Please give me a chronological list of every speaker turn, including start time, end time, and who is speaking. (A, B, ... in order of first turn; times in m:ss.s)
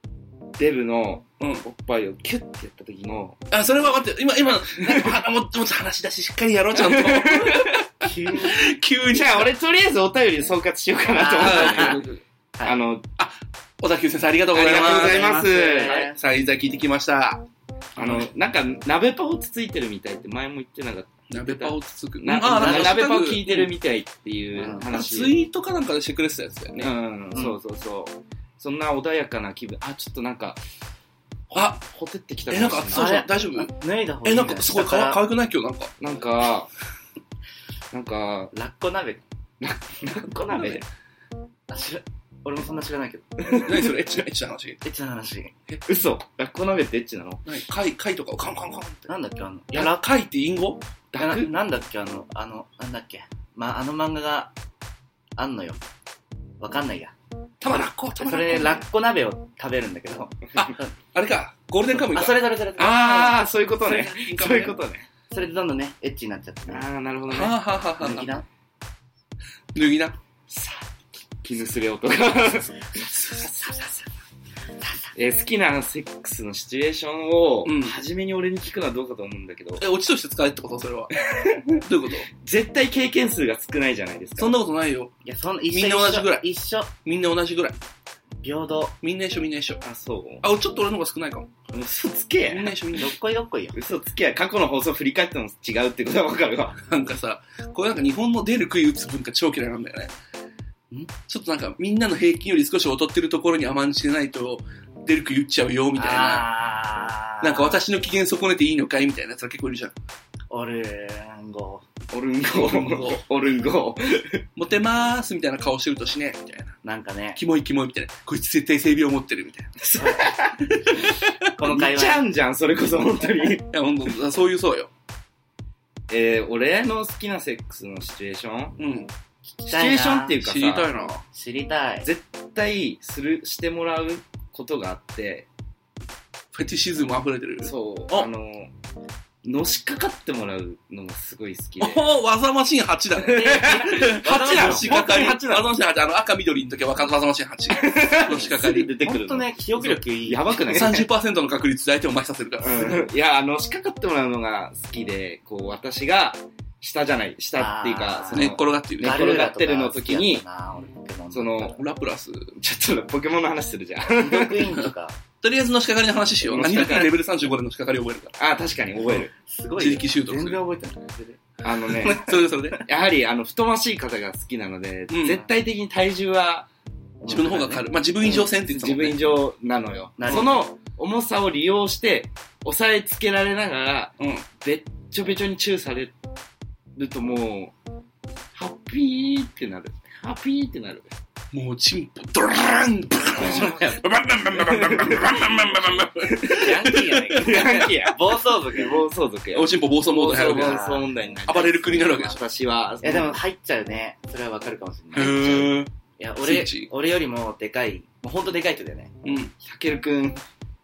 0:00.6-0:03.4 A
0:01.4-0:01.6 B
0:03.5-0:09.5 B
0:04.8-0:05.1 A
0:06.7-0:07.8 A
0:08.0-0:08.6 C
0:09.1-0:12.1 A
0:11.1-0:12.0 C
0:11.4-0:12.2 B
0:12.6-0:13.1 A
0:13.2-0:17.4 B
0:14.5-0:16.0 A
0:14.6-0:16.2 C
0:18.0-0:18.3 C
0:18.0-0:25.4 A
0:21.3-0:23.7 B
0:22.6-0:23.0 C
0:24.6-0:24.9 C
0:24.9-0:26.9 B
0:26.8-0:30.6 A
0:31.5-0:31.8 B
0:31.5-0:33.2 A
0:32.5-0:33.7 B
0:32.9-0:35.2 C
0:34.2-0:35.9 B
0:36.0-0:36.7 A
0:37.9-0:38.5 A
0:38.5-0:39.2 C
0:39.6-0:40.8 A
0:40.5-0:40.8 C
0:41.7-0:43.6 C
0:43.4-0:43.9 A
0:43.6-0:44.8 B
0:44.8-0:45.5 C
0:45.9-0:47.4 A
0:47.4-0:49.1 B
0:49.1-0:50.0 C
0:49.7-0:50.8 B
0:51.1-0:51.5 A
0:51.2-0:54.5 C
0:55.4-0:55.8 C
0:56.6-0:57.1 C
0:57.6-0:58.8 B
0:58.2-1:00.9 C
1:00.6-1:03.4 B
1:02.1-1:03.2 C
1:02.8-1:05.1 A
1:03.9-1:04.8 B
1:05.3-1:06.9 C
1:06.7-1:08.2 A
1:07.3-1:08.3 B
1:08.0-1:08.4 C
1:09.7-1:10.2 B
1:10.5-1:13.8 A
1:14.8-1:15.1 C
1:15.1-1:19.8 A
1:17.6-1:18.0 B
1:19.8-1:22.3 B
1:21.2-1:21.8 A
1:22.3-1:24.6 A
1:24.4-1:25.1 B
1:25.2-1:26.9 C
1:25.7-1:26.4 B
1:27.0-1:27.8 B
1:28.4-1:29.0 C
1:29.0-1:29.8 B
1:29.8-1:30.4 A
1:30.4-1:31.5 B
1:31.7-1:32.8 A
1:32.5-1:33.1 B
1:33.0-1:33.8 C
1:33.7-1:36.8 A
1:36.8-1:40.1 B
1:41.3-1:46.5 B
1:46.0-1:47.8 C
1:47.4-1:49.9 B
1:50.5-1:51.8 C
1:52.1-1:54.4 A
1:52.5-1:53.2 B
1:54.6-1:56.8 B
1:56.8-1:57.4 C
1:57.4-1:59.8 B
1:59.8-2:03.6 A
2:00.0-2:00.2 C
2:01.6-2:02.2 C
2:03.7-2:04.9 B
2:06.1-2:08.8 A
2:08.8-2:09.1 B
2:09.6-2:10.4 C
2:09.7-2:10.9 A
2:10.4-2:11.2 B
2:11.3-2:12.1 C
2:12.0-2:15.5 A
2:16.5-2:18.3 B
2:17.6-2:18.7 A
2:19.4-2:22.0 A
2:21.8-2:28.9 B
2:23.2-2:25.7 A
2:23.3-2:25.0 C
2:27.7-2:31.0 A
2:29.0-2:31.0 C
2:30.6-2:33.0 B
2:32.6-2:40.4 A
2:37.5-2:41.8 C
2:38.3-2:39.2 B
2:41.3-2:41.8 A
2:41.8-2:42.6 B
2:42.6-2:44.7 A
2:44.2-2:45.2 C
2:45.4-2:48.3 B
2:46.4-2:47.1 A
2:48.4-2:49.3 A
2:49.1-2:52.4 C
2:49.8-2:50.6 B
2:51.6-2:56.7 A
2:51.9-2:52.8 B
2:55.1-2:55.4 B
2:57.2-2:57.8 C
2:57.3-2:59.3 B
2:58.2-3:06.1 A
3:00.2-3:00.6 C
3:04.2-3:04.4 B
3:07.0-3:07.7 A
3:08.5-3:11.1 A
3:11.5-3:17.4 B
3:13.4-3:15.5 A
3:13.4-3:14.0 C
3:16.4-3:19.0 C
3:17.4-3:23.4 A
3:19.5-3:20.8 B
3:20.2-3:21.0 C
3:21.5-3:22.4 B
3:23.0-3:29.1 C
3:25.1-3:25.9 B
3:26.4-3:26.9 B
3:29.2-3:29.5 B
3:29.6-3:30.4 A